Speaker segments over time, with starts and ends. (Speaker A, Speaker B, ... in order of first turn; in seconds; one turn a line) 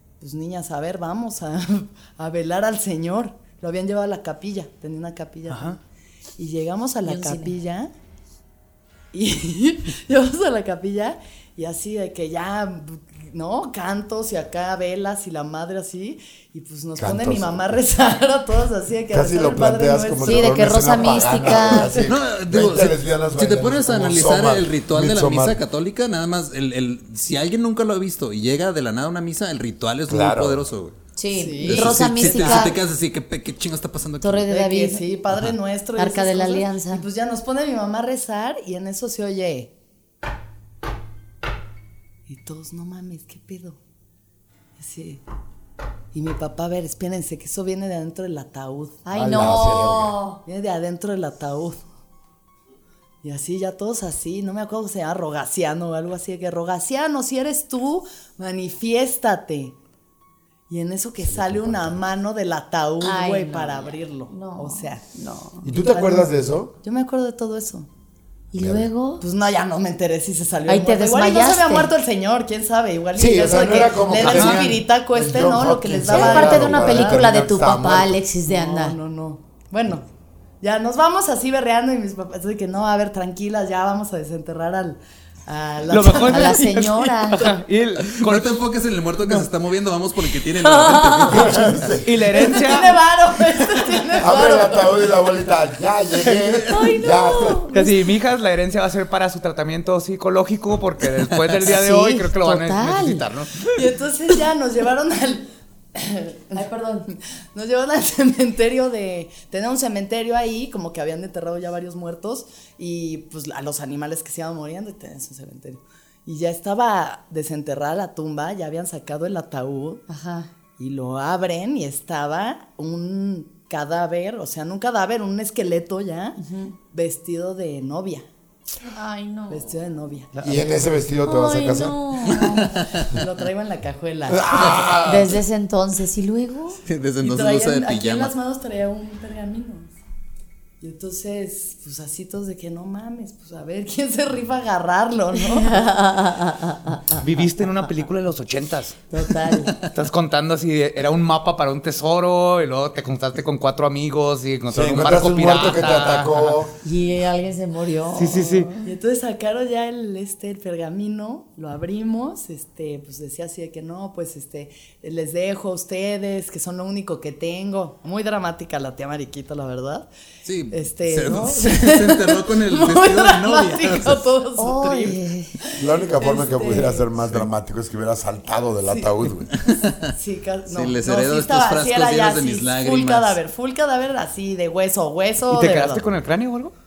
Speaker A: 0.2-5.8
Speaker B: 5.5-5.8
Speaker A: 6.4-7.9
Speaker C: 7.0-7.5
Speaker A: 9.1-22.0
Speaker D: 17.0-17.8
Speaker D: 19.1-25.6
Speaker C: 20.2-22.0
Speaker E: 22.0-31.0
Speaker D: 30.1-30.6
Speaker C: 31.1-32.8
Speaker A: 31.3-32.7
Speaker E: 31.6-34.5
Speaker C: 34.2-35.0
Speaker A: 34.5-39.7
Speaker C: 36.0-37.0
Speaker A: 42.3-43.8
Speaker A: 44.8-45.2
Speaker A: 46.1-49.0
Speaker C: 49.0-50.4
Speaker D: 49.1-50.2
Speaker A: 50.4-51.8
Speaker A: 53.2-59.8
Speaker A: 60.7-65.0
Speaker D: 61.2-62.0
Speaker C: 63.0-65.7
Speaker D: 65.6-66.8
Speaker A: 65.9-66.3
Speaker A: 66.8-67.9
Speaker C: 68.5-69.2
Speaker D: 68.5-68.9
Speaker A: 69.2-77.3
Speaker C: 70.7-71.9
Speaker D: 73.1-78.2
Speaker B: 74.2-74.7
Speaker C: 76.1-79.0
Speaker A: 78.5-80.0
Speaker A: 80.6-86.7
Speaker B: 85.9-88.6
Speaker C: 86.1-87.5
Speaker E: 88.1-92.0
Speaker C: 90.6-91.7
Speaker D: 91.2-92.1
Speaker B: 92.0-93.0
Speaker A: 92.3-94.9
Speaker D: 94.2-97.7
Speaker C: 96.7-97.9
Speaker B: 97.7-103.8
Speaker C: 101.6-103.2
Speaker A: 103.7-120.0
Speaker C: 106.5-107.1
Speaker C: 120.1-120.5
Speaker A: 120.8-128.2
Speaker C: 126.4-126.7
Speaker C: 128.9-129.7
Speaker A: 129.5-130.3
Speaker B: 130.3-130.6
Speaker D: 130.4-132.0
Speaker C: 131.2-132.8
Speaker E: 132.3-133.1
Speaker A: 133.0-134.9
Speaker D: 134.3-135.4
Speaker C: 135.0-136.8
Speaker E: 136.8-138.3
Speaker A: 137.2-139.9
Speaker A: 140.8-145.8
Speaker C: 145.4-147.2
Speaker B: 147.2-149.1
Speaker C: 149.1-149.8
Speaker B: 149.8-156.6
Speaker D: 154.7-156.7
Speaker C: 156.8-158.8
Speaker B: 158.2-158.7
Speaker A: 158.8-170.1
Speaker E: 170.4-174.3
Speaker A: 170.7-175.2
Speaker C: 174.6-175.5
Speaker A: 175.7-177.1
Speaker D: 175.8-179.5
Speaker A: 178.8-179.1
Speaker E: 179.5-180.1
Speaker A: 180.2-186.0
Speaker E: 180.7-183.4
Speaker B: 185.5-186.7